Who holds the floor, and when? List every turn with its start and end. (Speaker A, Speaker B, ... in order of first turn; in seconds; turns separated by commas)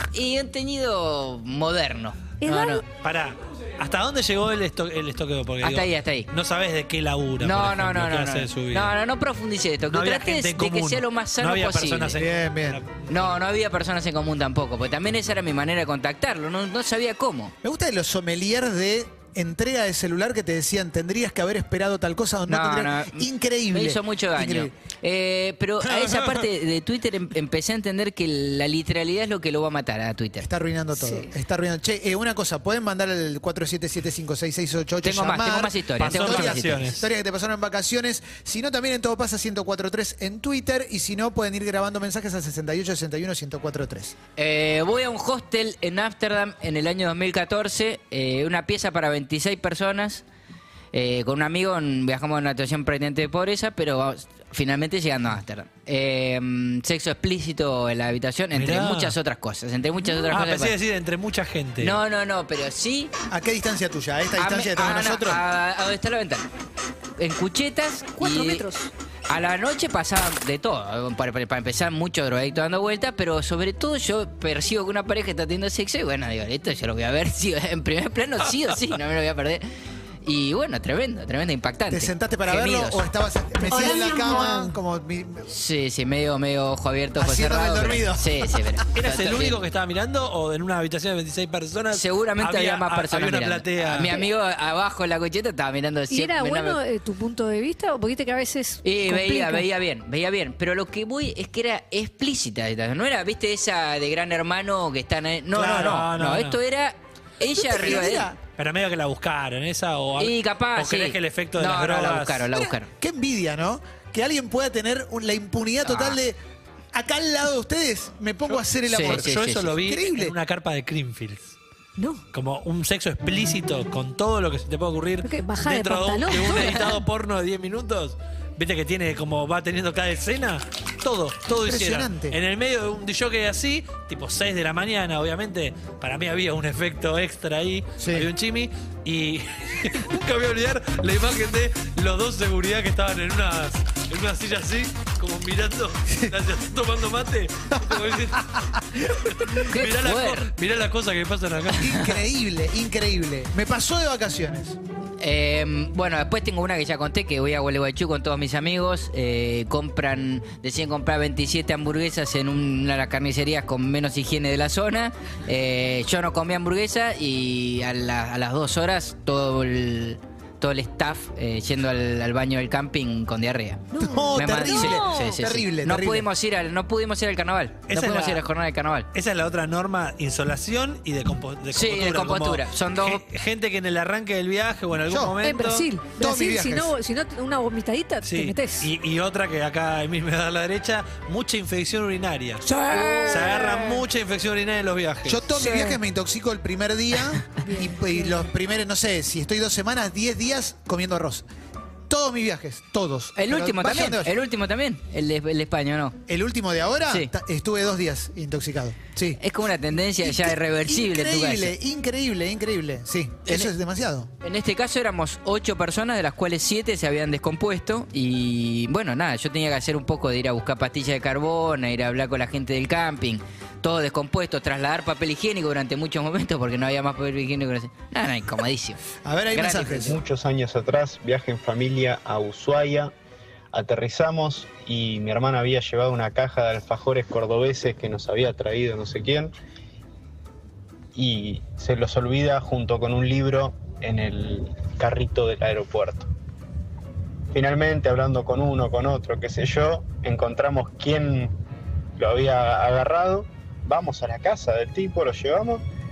Speaker A: 0.1-2.8, Speaker B: 2.4-2.8, Speaker C: 2.9-8.9, Speaker A: 5.6-6.3, Speaker A: 7.4-12.2, Speaker C: 9.9-13.3, Speaker D: 12.2-12.8, Speaker A: 13.1-17.5, Speaker D: 17.6-24.7, Speaker A: 22.5-30.5, Speaker D: 25.8-26.4, Speaker D: 30.4-44.1, Speaker A: 35.0-37.0, Speaker C: 36.0-37.0, Speaker A: 44.4-50.2, Speaker A: 50.9-60.8, Speaker C: 58.5-59.1, Speaker C: 60.3-62.0, Speaker A: 61.8-63.1, Speaker D: 63.3-65.4, Speaker A: 64.4-66.5, Speaker A: 67.2-68.6, Speaker B: 68.2-68.9, Speaker A: 69.3-79.7, Speaker A: 80.2-83.0, Speaker D: 81.9-85.5, Speaker B: 83.7-84.7, Speaker A: 85.5-89.6, Speaker D: 87.2-88.6, Speaker C: 88.9-94.1, Speaker A: 91.9-96.8, Speaker B: 94.0-94.3, Speaker B: 96.1-99.7, Speaker A: 98.8-108.3, Speaker C: 105.5-106.6, Speaker D: 107.5-108.4, Speaker C: 108.5-112.5, Speaker A: 110.2-112.9, Speaker D: 112.5-116.4, Speaker A: 115.8-116.1, Speaker D: 116.9-120.3, Speaker C: 118.5-121.5, Speaker A: 118.9-119.8, Speaker B: 122.0-122.2, Speaker C: 122.3-152.0, Speaker B: 125.2-127.0, Speaker D: 131.6-132.4, Speaker D: 138.0-138.3, Speaker D: 147.7-149.2, Speaker A: 149.6-150.5, Speaker D: 151.7-154.8, Speaker A: 155.2-179.1, Speaker B: 173.9-175.4, Speaker D: 174.0-176.3, Speaker C: 177.9-178.4, Speaker C: 179.1-185.9, Speaker A: 181.7-183.2, Speaker D: 185.1-185.3, Speaker B: 185.4-188.9, Speaker D: 186.1-186.9, Speaker C: 188.2-192.7, Speaker B: 192.6-193.7, Speaker A: 192.9-194.0, Speaker C: 193.3-195.4, Speaker D: 195.2-201.4, Speaker B: 195.5-196.0, Speaker B: 197.6-198.5, Speaker D: 202.1-204.3, Speaker A: 203.3-206.2, Speaker D: 206.3-209.4, Speaker A: 209.4-211.7, Speaker D: 210.2-214.3, Speaker A: 213.4-213.7, Speaker A: 214.4-229.0, Speaker D: 229.2-230.2, Speaker A: 229.5-230.1, Speaker E: 230.1-233.1, Speaker E: 233.7-239.5, Speaker E: 241.1-246.3, Speaker E: 247.5-251.5, Speaker E: 252.2-255.8